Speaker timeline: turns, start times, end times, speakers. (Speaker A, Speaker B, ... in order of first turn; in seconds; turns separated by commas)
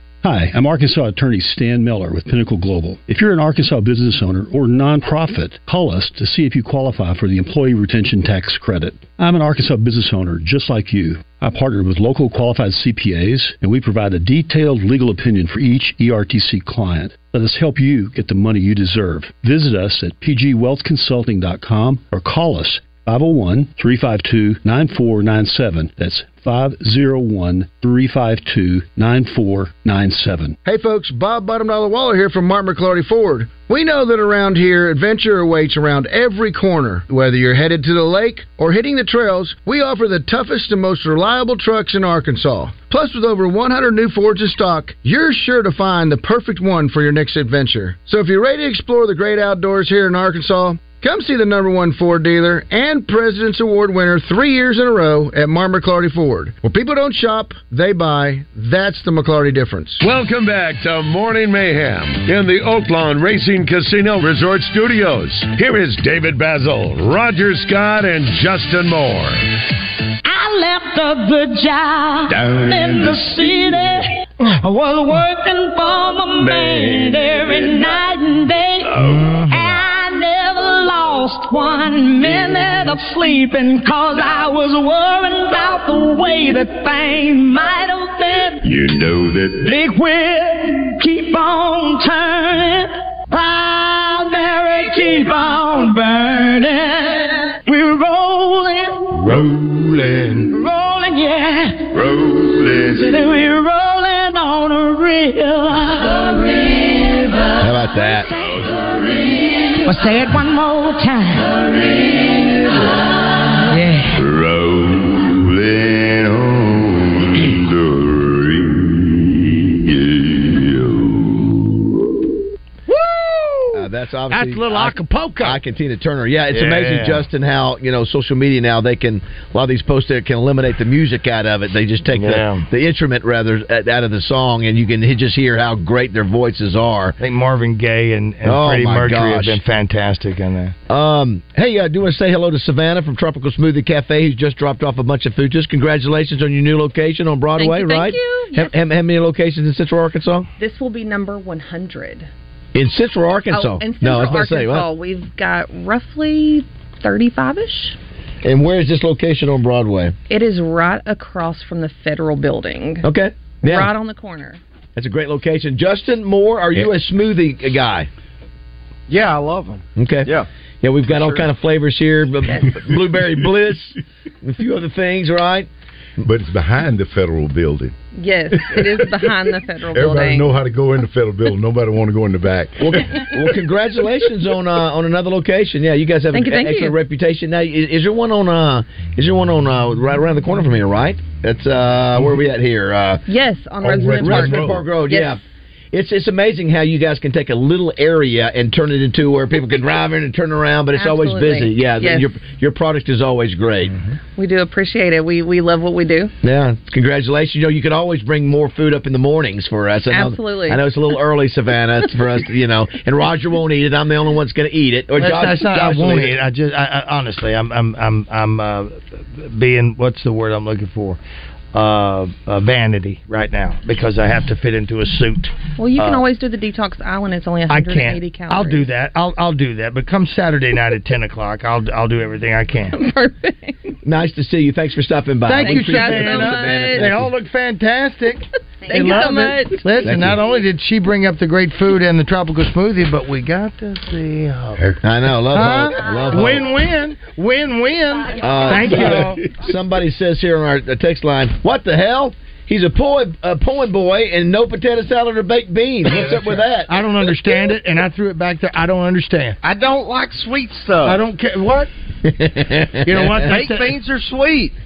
Speaker A: 0.2-30.6, Speaker B: 30.6-60.0, Speaker C: 60.0-69.4, Speaker D: 70.2-88.8, Speaker E: 79.0-79.5, Speaker C: 88.8-89.5, Speaker D: 89.5-99.3, Speaker F: 99.7-100.3, Speaker D: 100.5-107.5, Speaker G: 107.6-108.3, Speaker D: 109.8-111.5, Speaker D: 113.7-114.2, Speaker E: 122.9-125.6, Speaker G: 123.7-137.2, Speaker E: 126.5-127.2, Speaker E: 132.2-132.7, Speaker E: 137.2-140.7, Speaker G: 138.4-139.6, Speaker G: 140.9-150.5, Speaker H: 147.6-148.7, Speaker H: 150.6-152.3, Speaker G: 152.7-154.9, Speaker H: 153.5-158.0, Speaker G: 158.4-160.2, Speaker H: 160.3-163.1, Speaker G: 163.0-163.9, Speaker H: 163.6-164.6, Speaker G: 164.9-168.1, Speaker I: 169.1-170.5, Speaker G: 169.9-170.3, Speaker G: 170.8-175.7, Speaker I: 171.1-171.5, Speaker F: 176.2-177.9, Speaker H: 178.1-180.5, Speaker F: 178.6-178.9, Speaker F: 179.9-183.1, Speaker G: 182.8-193.2, Speaker H: 186.3-186.9, Speaker H: 193.3-195.4, Speaker F: 193.8-194.8, Speaker G: 194.2-195.4, Speaker G: 195.9-204.0, Speaker H: 200.9-202.3, Speaker H: 204.4-206.3, Speaker G: 206.4-216.4, Speaker H: 210.1-210.8, Speaker E: 215.2-221.2, Speaker E: 221.7-225.5, Speaker H: 225.8-228.9, Speaker E: 227.7-232.9, Speaker H: 232.9-233.9, Speaker G: 234.0-237.3, Speaker E: 235.5-244.8, Speaker H: 235.6-237.1, Speaker H: 238.8-240.0, Speaker G: 240.0-240.4, Speaker G: 245.0-246.7, Speaker E: 245.5-249.4, Speaker G: 248.4-256.9, Speaker E: 256.9-259.6, Speaker I: 259.6-261.2, Speaker E: 261.0-261.9, Speaker G: 262.2-263.3, Speaker E: 263.0-263.9, Speaker I: 263.2-264.7